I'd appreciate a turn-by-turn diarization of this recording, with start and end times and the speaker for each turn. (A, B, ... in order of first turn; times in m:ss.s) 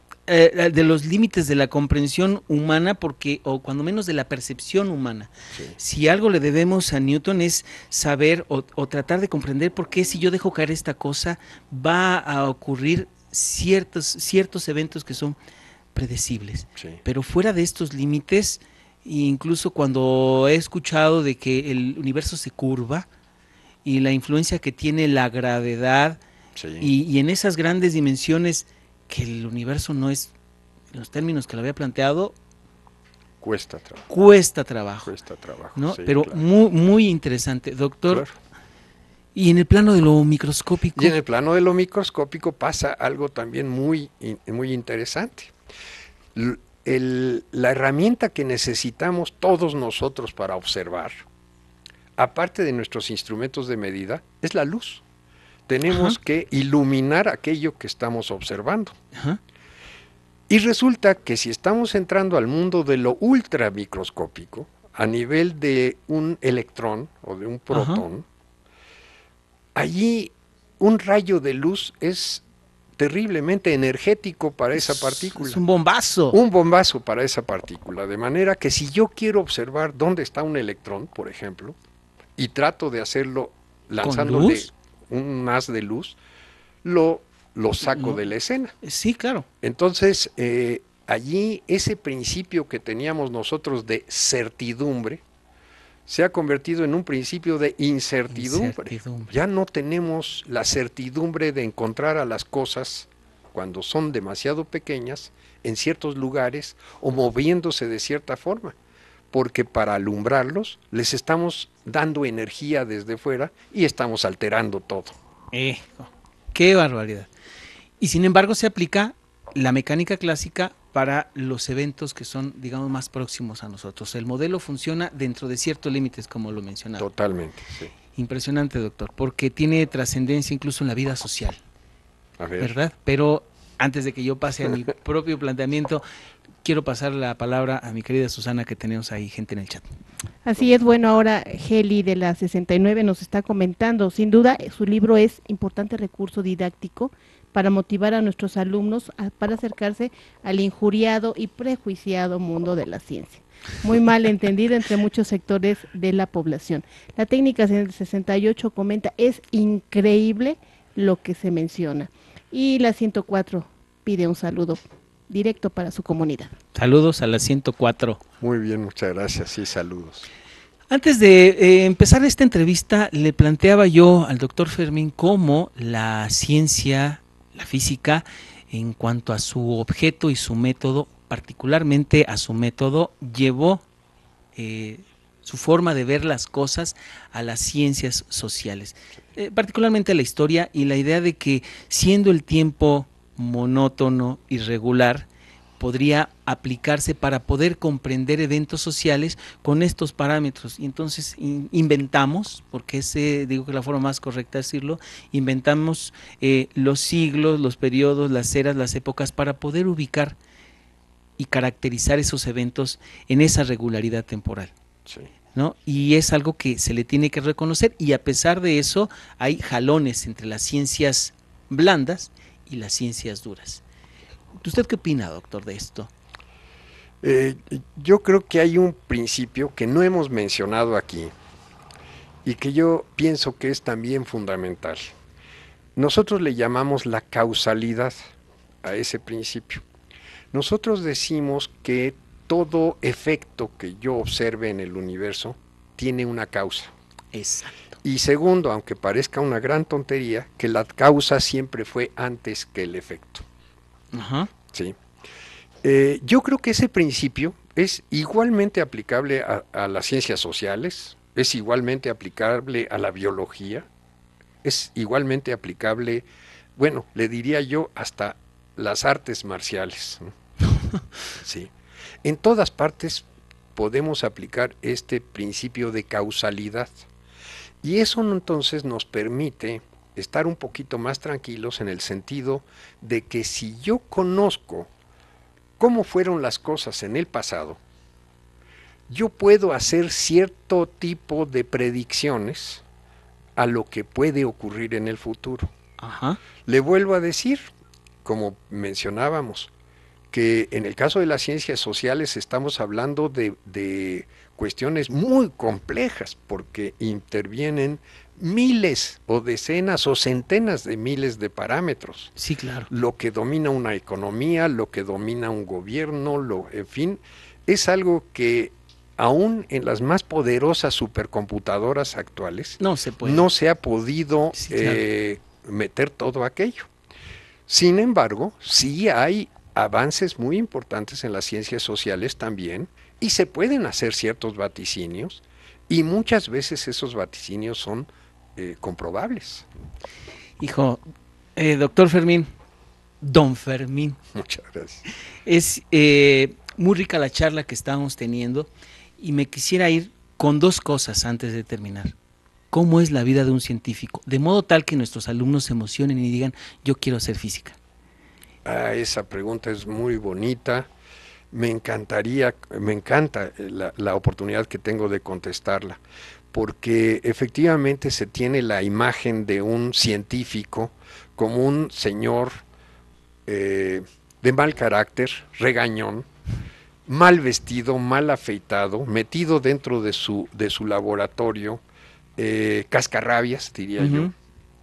0:00.3-0:15.4 A
0:05.5-0:05.8 B
0:15.9-0:23.1 A
0:23.8-0:26.2 A
0:26.6-0:26.9 B
0:26.8-0:30.3 A
0:30.9-0:32.3 A
0:33.4-0:34.1 B
0:34.1-0:35.1 A
0:35.0-0:36.4 B
0:35.8-0:38.2 A
0:38.1-0:38.3 B
0:39.3-0:41.2 A
0:40.9-0:45.5 B
0:46.3-0:51.2 B
0:52.2-0:55.0 B
0:55.7-0:59.0 B
0:55.9-0:56.2 A
0:59.1-0:59.4 A
1:00.5-1:08.2 B
1:07.7-1:08.0 A
1:09.7-1:12.4 B
1:13.0-1:15.6 B
1:14.8-1:16.4 A
1:16.3-1:21.8 B
1:22.4-1:26.2 B
1:24.0-1:24.7 A
1:26.8-1:28.7 B
1:27.8-1:28.2 A
1:28.8-1:29.4 A
1:29.6-1:35.2 B
1:36.1-1:48.7 B
1:38.3-1:39.3 A
1:49.3-1:55.1 B
1:55.5-1:57.3 A
1:58.0-2:07.0 A
2:07.0-2:07.9 B
2:08.2-2:11.6 A
2:12.4-2:12.7 B
2:12.6-2:16.0 A
2:16.6-2:19.8 A
2:20.4-2:46.6 C
2:46.7-2:48.2 A
2:48.4-2:50.3 B
2:50.9-3:03.8 A
3:04.6-3:15.3 A
3:15.8-3:30.4 A
3:31.4-3:34.7 A
3:35.5-3:43.8 A
3:44.6-3:46.1 A
3:47.2-3:51.3 B
3:52.4-3:55.1 B
3:56.0-3:58.3 B
3:58.8-3:59.8 B
4:00.5-4:06.9 B
4:07.3-4:07.8 A
4:08.0-4:13.4 B
4:14.1-4:14.5 A
4:14.7-4:15.0 B
4:15.8-4:23.9 B
4:24.6-4:30.3 B
4:31.3-4:31.7 B
4:32.2-4:37.0 B
4:37.8-4:44.9 B
4:45.8-4:47.8 B
4:49.1-4:52.8 B
4:53.6-4:55.7 B
4:56.0-4:56.4 A
4:56.6-4:57.7 B
4:58.2-4:59.7 B
5:00.3-5:12.3 B
5:12.4-5:12.9 A
5:12.9-5:26.9 B
5:22.8-5:23.5 A
5:24.6-5:25.0 A
5:27.7-5:39.7 B
5:40.6-5:41.0 A
5:41.6-5:42.5 A
5:43.2-5:44.2 A
5:44.3-5:45.0 B
5:45.4-5:52.1 A
5:52.7-5:57.8 A
5:58.6-6:00.9 B
6:01.5-6:06.0 B
6:06.5-6:12.6 B
6:13.4-6:16.3 B
6:17.1-6:21.8 B
6:22.4-6:24.3 B
6:24.0-6:24.3 A